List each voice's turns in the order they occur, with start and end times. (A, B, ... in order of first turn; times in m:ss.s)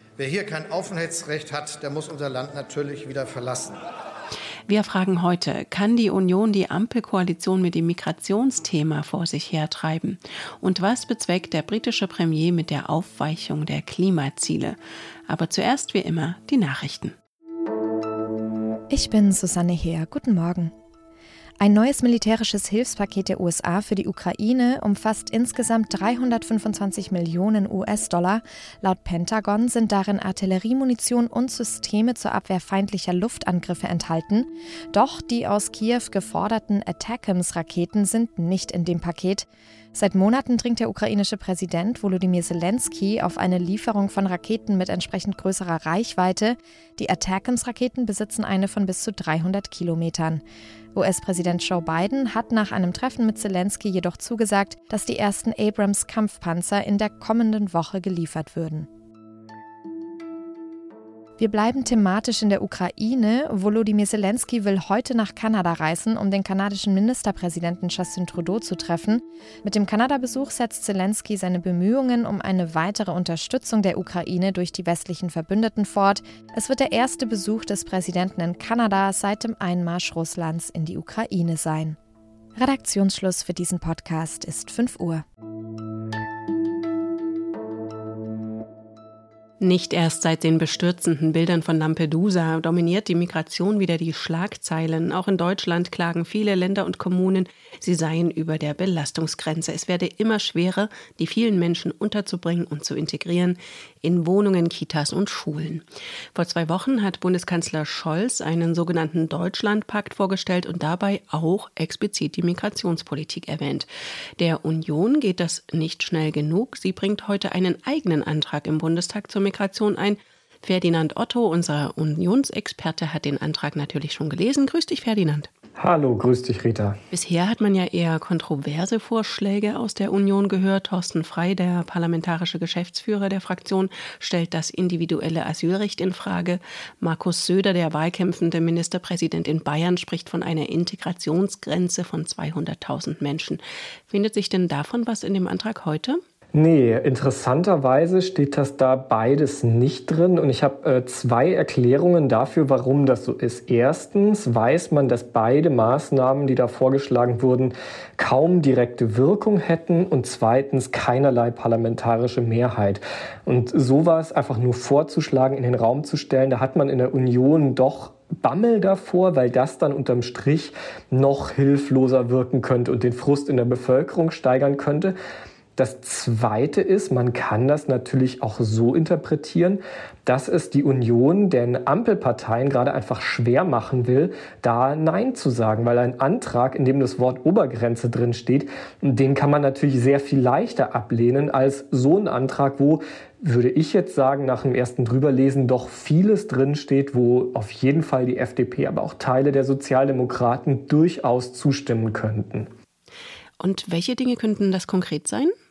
0:00.2-0:03.8 A
0:04.7-0:14.8 B
0:15.3-0:17.1 B
0:18.9-0:20.7 C
0:21.6-0:50.4 C
0:50.9-0:58.9 C
1:01.4-1:22.0 C
1:22.6-1:25.2 C
1:29.6-1:45.8 B
1:46.3-2:05.5 B
2:05.8-2:07.0 D
2:07.1-2:26.2 B
2:26.5-2:55.1 D
2:55.8-3:22.7 D
3:23.6-3:25.5 B